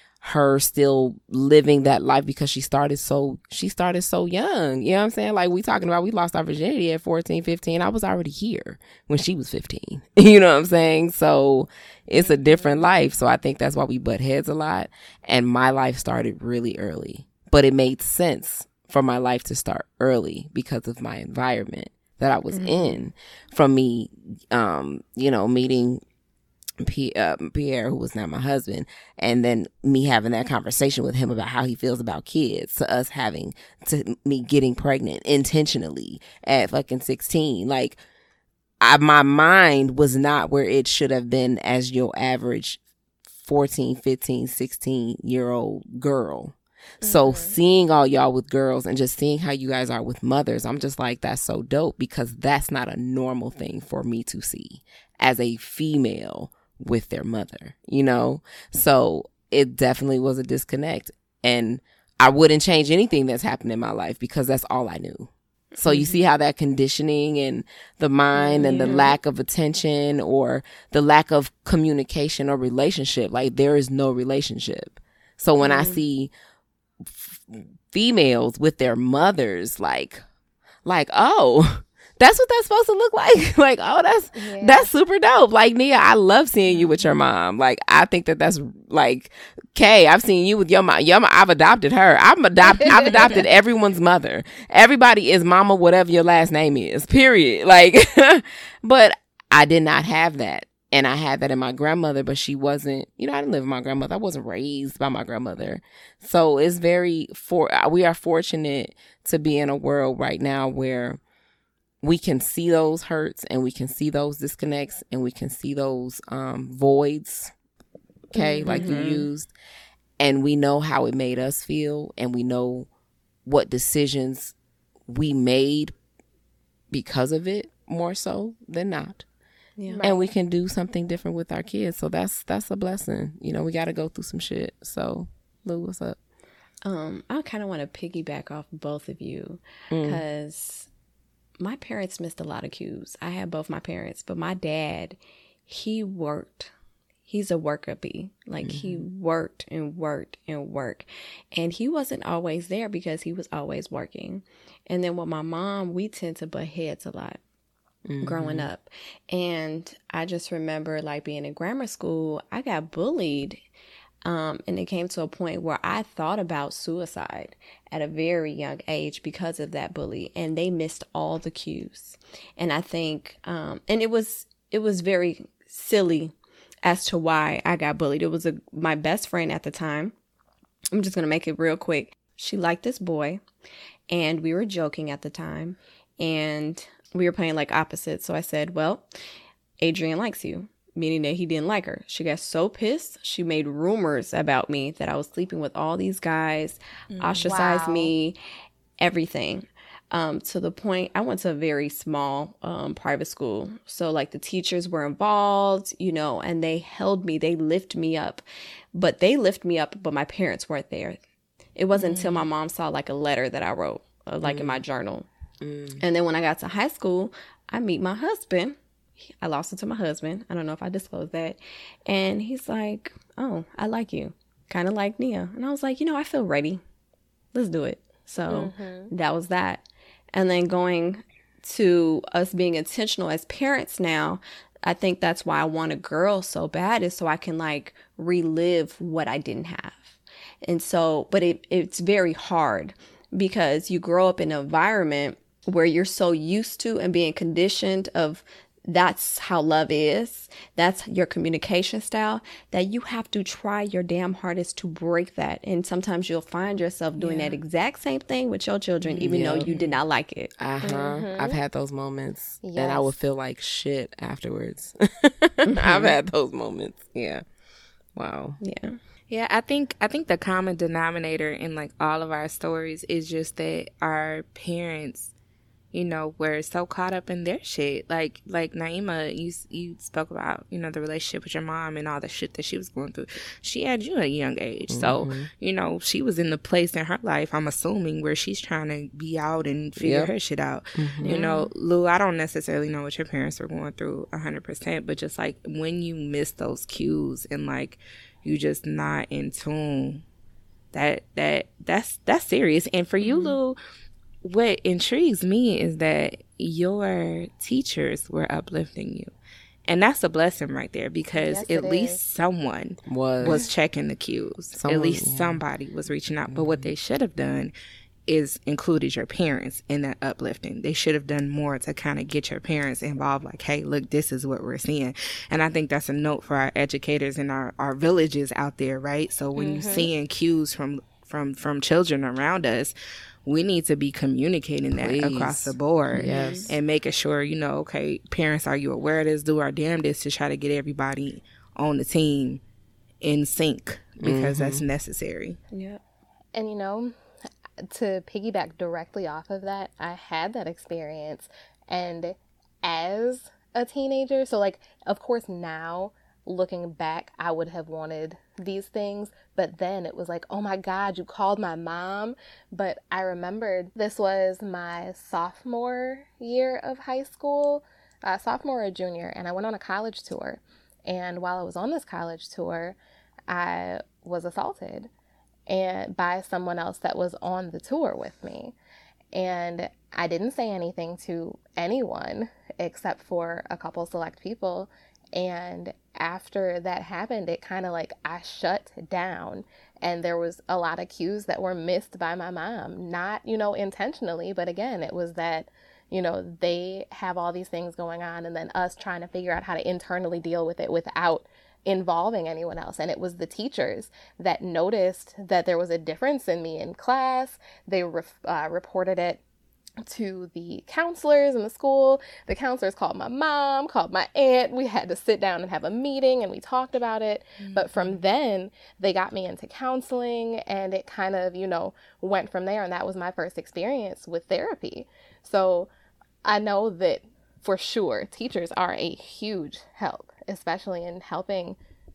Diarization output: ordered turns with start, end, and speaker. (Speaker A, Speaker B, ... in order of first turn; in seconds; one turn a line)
Speaker A: 0.2-26.0
Speaker B: 22.5-23.1
Speaker A: 26.8-38.0
Speaker A: 38.8-42.8
Speaker A: 43.4-76.3
Speaker C: 47.1-47.5
Speaker B: 65.8-66.2
Speaker B: 68.3-69.1
Speaker B: 75.6-76.0
Speaker A: 77.1-80.2
Speaker A: 80.8-111.2
Speaker C: 84.3-84.9
Speaker A: 112.0-117.5
Speaker A: 118.3-119.5
Speaker B: 118.4-119.2
Speaker D: 118.7-119.2
Speaker A: 120.2-122.9
Speaker A: 123.5-124.5
Speaker A: 125.1-125.9
Speaker A: 126.9-129.2
Speaker B: 129.8-130.1
Speaker C: 129.9-130.2
Speaker A: 130.0-136.2
Speaker B: 136.8-140.9
Speaker A: 139.9-140.2
Speaker B: 141.6-146.7
Speaker B: 147.3-157.4
Speaker A: 148.6-149.0
Speaker A: 158.1-158.7
Speaker B: 158.2-163.6
Speaker B: 164.2-176.3
Speaker B: 176.8-180.1
Speaker B: 180.9-183.4
Speaker B: 184.1-189.1
Speaker B: 189.8-198.4
Speaker C: 197.4-198.1
Speaker B: 199.0-211.2
Speaker B: 211.8-215.3
Speaker D: 211.9-212.5
Speaker A: 214.4-214.8
Speaker A: 215.6-216.0
Speaker B: 216.0-218.8
Speaker B: 219.4-226.8
Speaker B: 227.5-260.5
Speaker C: 228.5-229.1
Speaker C: 257.2-257.5
Speaker D: 259.0-260.0
Speaker A: 259.2-259.7
Speaker A: 260.6-267.4
Speaker C: 260.8-261.6
Speaker C: 262.6-263.1
Speaker B: 265.6-266.2
Speaker A: 268.1-268.6
Speaker B: 268.6-269.0
Speaker D: 269.3-275.3
Speaker D: 275.9-300.2
Speaker A: 284.9-285.5
Speaker A: 290.0-290.3
Speaker A: 291.0-291.4
Speaker B: 291.2-291.7
Speaker D: 300.9-303.8
Speaker D: 304.4-309.3
Speaker D: 309.9-317.7
Speaker C: 311.4-312.2
Speaker A: 313.1-313.7
Speaker A: 314.8-315.6
Speaker A: 316.5-316.9
Speaker D: 318.3-332.9
Speaker C: 329.6-330.1
Speaker D: 333.5-342.6
Speaker A: 334.9-336.8
Speaker B: 336.1-336.7
Speaker D: 343.2-345.6
Speaker A: 344.2-344.8
Speaker B: 345.7-346.0
Speaker C: 346.5-347.1
Speaker C: 347.8-373.0
Speaker C: 373.5-375.1
Speaker C: 375.7-378.7
Speaker C: 379.3-409.4
Speaker C: 410.0-425.9
Speaker D: 417.6-418.2
Speaker C: 426.4-431.8